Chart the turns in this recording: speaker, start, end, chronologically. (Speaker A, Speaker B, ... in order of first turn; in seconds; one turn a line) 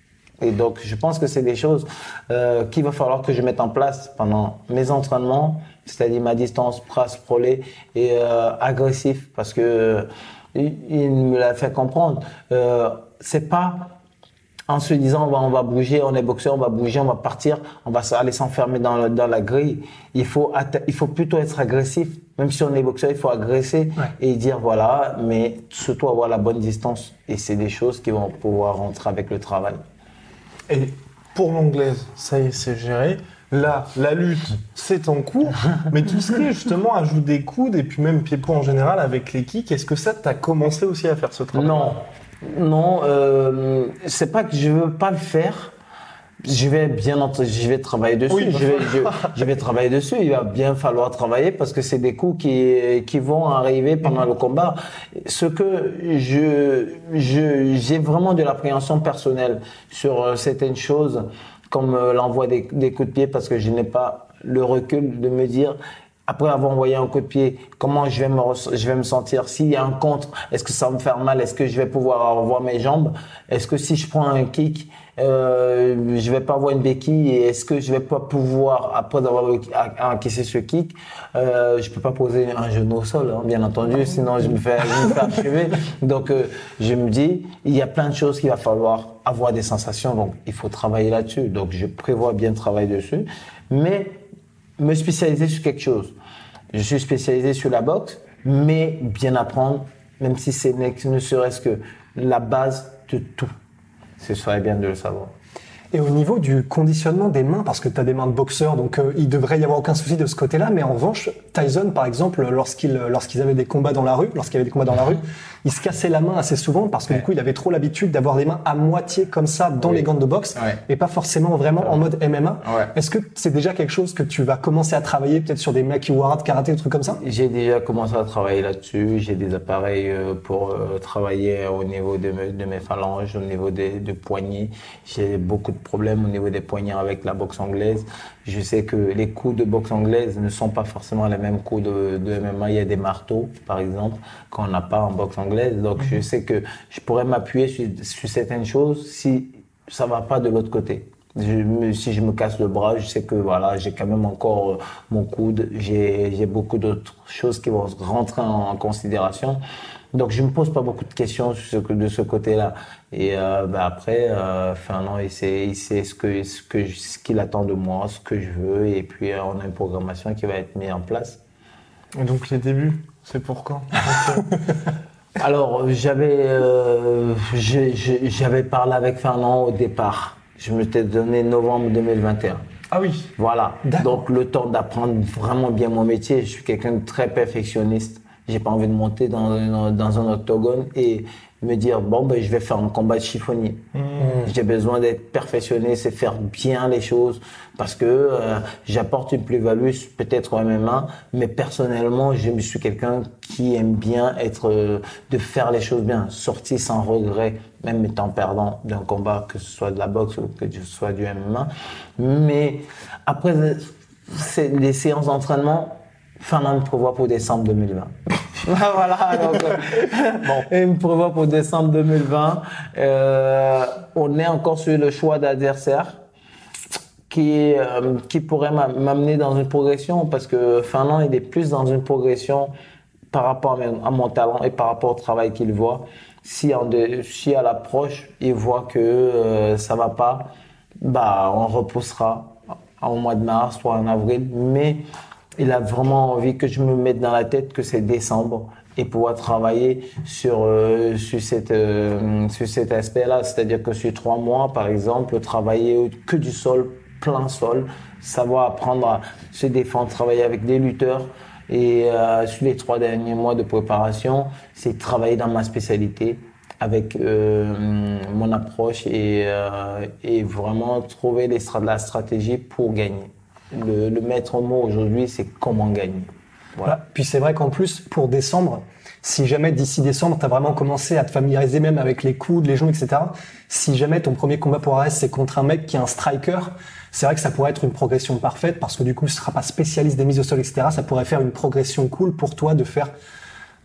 Speaker A: 0.4-13.9
Speaker A: 14.7-29.8
Speaker B: 30.7-42.0
Speaker A: 41.5-45.7
Speaker A: 46.4-94.2
Speaker B: 48.3-49.4
Speaker A: 94.8-96.1
Speaker A: 96.7-103.5
Speaker A: 104.2-105.3
Speaker C: 105.9-127.2
Speaker A: 121.8-122.0
Speaker A: 122.6-122.9
Speaker A: 127.2-159.6
Speaker A: 160.1-171.4
Speaker B: 172.1-174.6
Speaker A: 175.4-182.6
Speaker B: 182.9-183.3
Speaker A: 183.4-193.8
Speaker C: 183.8-184.2
Speaker B: 193.9-194.4
Speaker A: 194.3-226.2
Speaker A: 227.3-232.7
Speaker A: 233.3-245.0
Speaker A: 245.6-276.9
Speaker C: 276.8-293.1